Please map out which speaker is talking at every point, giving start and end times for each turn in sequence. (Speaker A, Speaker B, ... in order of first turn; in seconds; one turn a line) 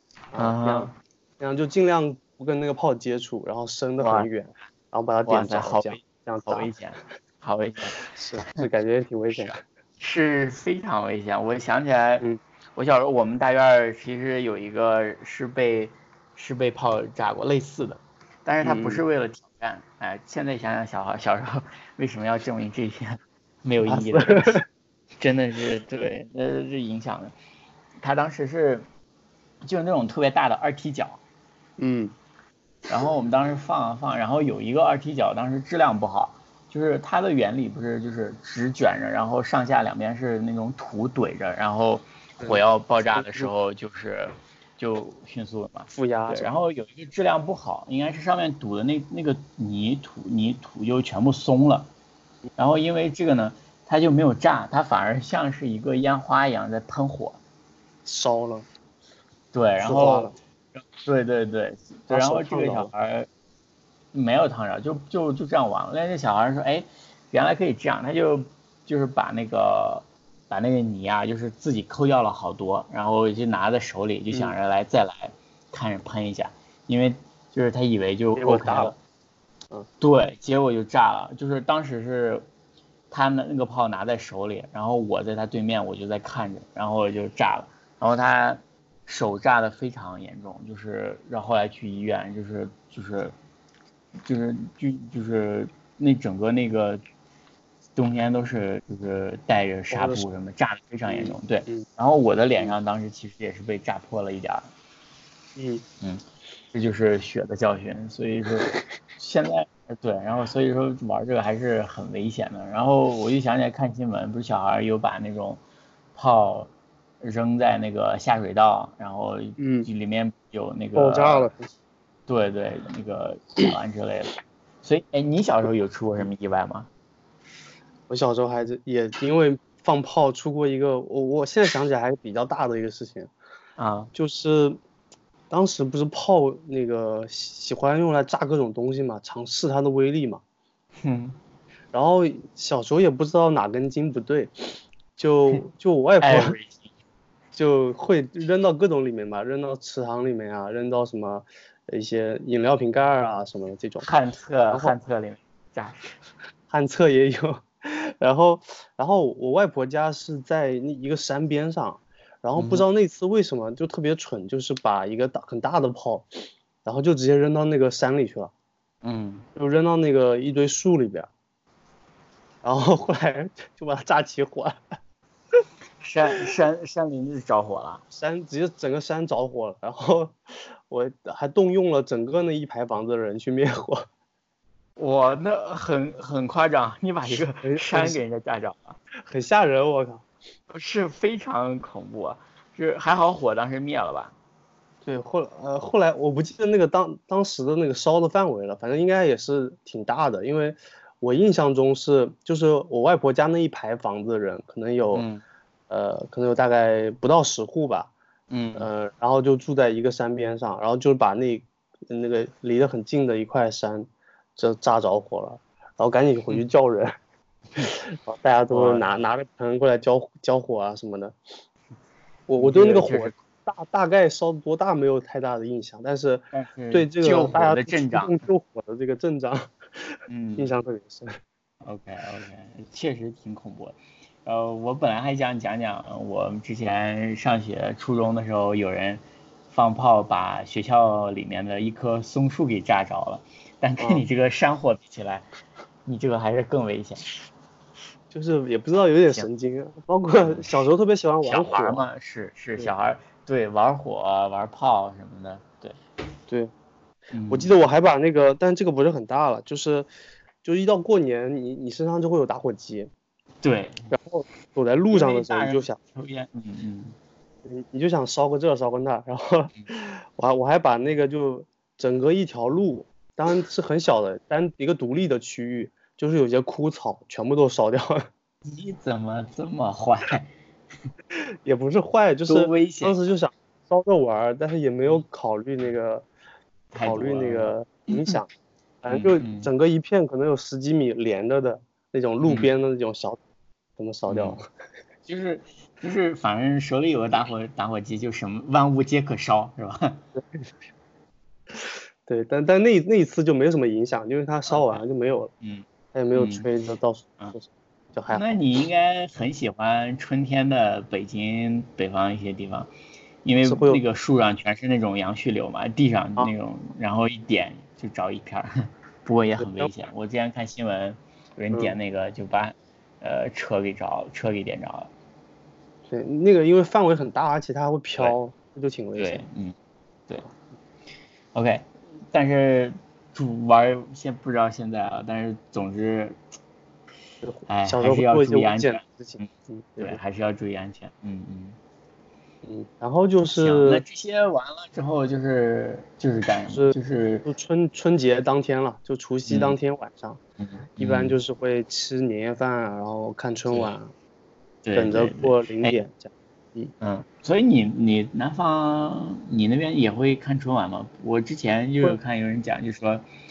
Speaker A: 0.3-6.7
Speaker B: 0.4-0.9
Speaker B: 4.0-4.3
Speaker B: 5.2-8.0
Speaker A: 8.1-9.6
Speaker B: 9.4-24.6
Speaker A: 18.6-19.0
Speaker A: 23.9-24.6
Speaker B: 25.2-27.3
Speaker B: 28.0-28.9
Speaker B: 29.6-31.2
Speaker A: 31.8-32.1
Speaker B: 32.9-51.9
Speaker A: 43.1-43.5
Speaker A: 45.9-46.5
Speaker B: 52.6-57.4
Speaker A: 58.0-58.7
Speaker B: 59.5-63.3
Speaker A: 59.8-60.4
Speaker A: 62.1-62.9
Speaker B: 64.1-79.0
Speaker A: 78.4-79.0
Speaker B: 80.0-82.4
Speaker B: 83.1-93.3
Speaker B: 94.2-97.0
Speaker B: 97.9-104.7
Speaker A: 99.9-100.2
Speaker A: 101.1-101.8
Speaker A: 105.5-105.8
Speaker B: 106.0-115.6
Speaker B: 116.1-121.5
Speaker A: 119.6-119.9
Speaker A: 120.9-121.7
Speaker B: 122.3-126.9
Speaker A: 128.1-133.3
Speaker B: 133.8-134.1
Speaker A: 134.1-134.8
Speaker A: 135.5-140.4
Speaker B: 141.0-141.4
Speaker A: 141.9-146.6
Speaker B: 146.2-146.9
Speaker A: 147.5-154.1
Speaker B: 154.0-156.1
Speaker A: 156.7-168.5
Speaker B: 162.6-162.8
Speaker B: 169.0-169.4
Speaker A: 169.6-171.3
Speaker A: 172.6-174.8
Speaker B: 176.0-178.0
Speaker A: 178.1-184.1
Speaker B: 185.0-189.0
Speaker A: 187.6-188.2
Speaker A: 189.2-190.2
Speaker B: 190.7-194.3
Speaker A: 195.0-205.2
Speaker B: 205.1-205.4
Speaker A: 205.9-208.1
Speaker B: 208.5-208.9
Speaker A: 208.8-217.1
Speaker A: 217.8-221.3
Speaker B: 218.7-219.1
Speaker A: 222.5-231.3
Speaker B: 222.6-223.4
Speaker B: 226.5-228.4
Speaker B: 230.3-230.7
Speaker B: 231.8-245.4
Speaker B: 246.1-247.2
Speaker A: 248.3-252.0
Speaker B: 250.4-250.7
Speaker B: 251.4-256.0
Speaker B: 257.3-257.7
Speaker A: 257.5-260.1
Speaker A: 260.6-263.1
Speaker B: 263.6-264.1
Speaker A: 264.1-266.0
Speaker B: 265.1-267.1
Speaker A: 267.6-278.2
Speaker B: 278.6-280.5
Speaker A: 281.3-286.3
Speaker B: 282.5-283.1
Speaker B: 286.9-288.4
Speaker A: 287.0-288.5
Speaker A: 289.0-293.4
Speaker B: 289.1-289.7
Speaker B: 292.4-292.7
Speaker A: 294.0-294.6
Speaker B: 294.3-294.6
Speaker B: 295.3-300.2
Speaker A: 300.4-300.7
Speaker A: 301.7-305.5
Speaker B: 304.7-305.0
Speaker B: 305.6-306.7
Speaker A: 306.1-308.6
Speaker B: 308.3-312.9
Speaker B: 313.4-325.1
Speaker A: 313.6-314.0
Speaker A: 319.6-319.9
Speaker A: 326.1-329.4
Speaker B: 329.2-329.7
Speaker B: 331.5-336.4
Speaker A: 337.4-340.2
Speaker B: 337.7-341.8
Speaker A: 342.6-344.0
Speaker B: 343.6-347.5
Speaker A: 346.7-350.4
Speaker B: 349.4-349.8
Speaker B: 350.6-351.4
Speaker A: 351.0-354.1
Speaker B: 353.7-353.9
Speaker B: 354.8-355.9
Speaker A: 354.9-356.9
Speaker B: 357.0-363.2